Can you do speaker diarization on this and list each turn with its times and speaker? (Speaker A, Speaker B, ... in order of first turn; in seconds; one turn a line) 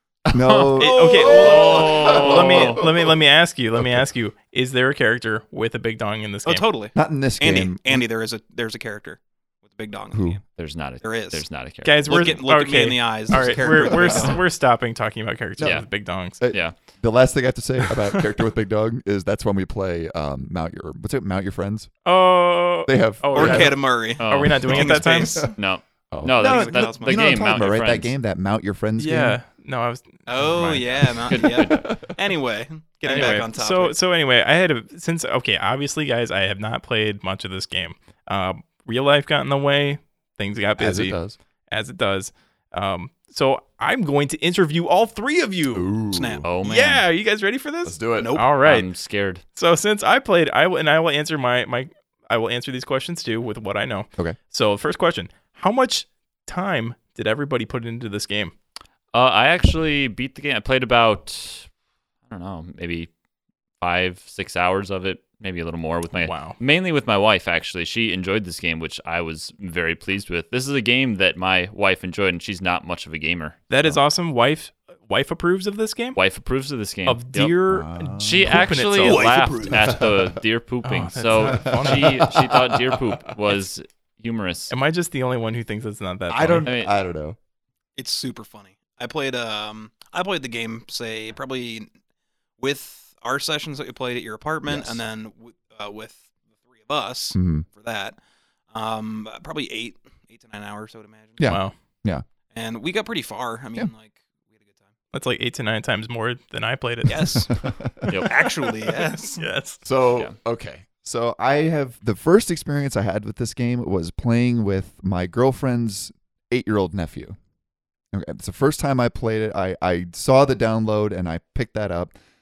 Speaker A: 0.3-3.1
Speaker B: 0.3-2.8
Speaker C: 0.8-6.6
Speaker D: 0.8-2.4
Speaker D: 6.4-10.4
Speaker A: 6.9-8.0
Speaker A: 10.1-10.4
Speaker B: 10.6-12.3
Speaker D: 11.0-11.4
Speaker C: 11.8-16.4
Speaker D: 12.0-14.4
Speaker A: 13.3-14.4
Speaker B: 15.6-15.8
Speaker A: 16.4-21.9
Speaker B: 16.5-16.8
Speaker C: 22.0-25.5
Speaker A: 22.9-23.8
Speaker D: 23.3-25.5
Speaker B: 24.2-28.1
Speaker A: 26.1-29.4
Speaker D: 26.4-27.4
Speaker C: 29.0-30.9
Speaker D: 30.3-34.0
Speaker B: 31.1-31.9
Speaker A: 31.4-32.0
Speaker C: 33.0-41.2
Speaker A: 40.8-41.4
Speaker C: 41.7-45.9
Speaker A: 45.7-46.4
Speaker D: 46.1-46.5
Speaker B: 46.4-47.0
Speaker C: 46.6-48.9
Speaker A: 47.8-48.3
Speaker D: 48.2-48.5
Speaker B: 48.6-49.4
Speaker C: 49.5-58.5
Speaker B: 59.1-61.7
Speaker B: 62.3-63.1
Speaker B: 63.8-74.0
Speaker C: 66.2-66.6
Speaker C: 73.7-76.2
Speaker B: 76.2-77.5
Speaker C: 77.0-79.3
Speaker A: 77.7-78.7
Speaker B: 78.2-84.7
Speaker D: 79.0-80.1
Speaker A: 79.7-80.3
Speaker C: 80.8-82.2
Speaker A: 81.4-83.3
Speaker C: 84.7-86.7
Speaker A: 86.3-87.4
Speaker B: 86.6-86.9
Speaker D: 88.0-91.9
Speaker D: 92.6-98.2
Speaker A: 94.7-95.0
Speaker A: 97.3-97.6
Speaker D: 98.7-101.5
Speaker A: 101.4-102.2
Speaker C: 101.5-101.7
Speaker D: 102.5-104.9
Speaker C: 105.1-107.4
Speaker D: 107.1-107.5
Speaker A: 107.5-108.2
Speaker B: 108.1-108.3
Speaker D: 108.2-109.5
Speaker C: 109.4-109.8
Speaker A: 109.8-117.4
Speaker A: 118.1-122.1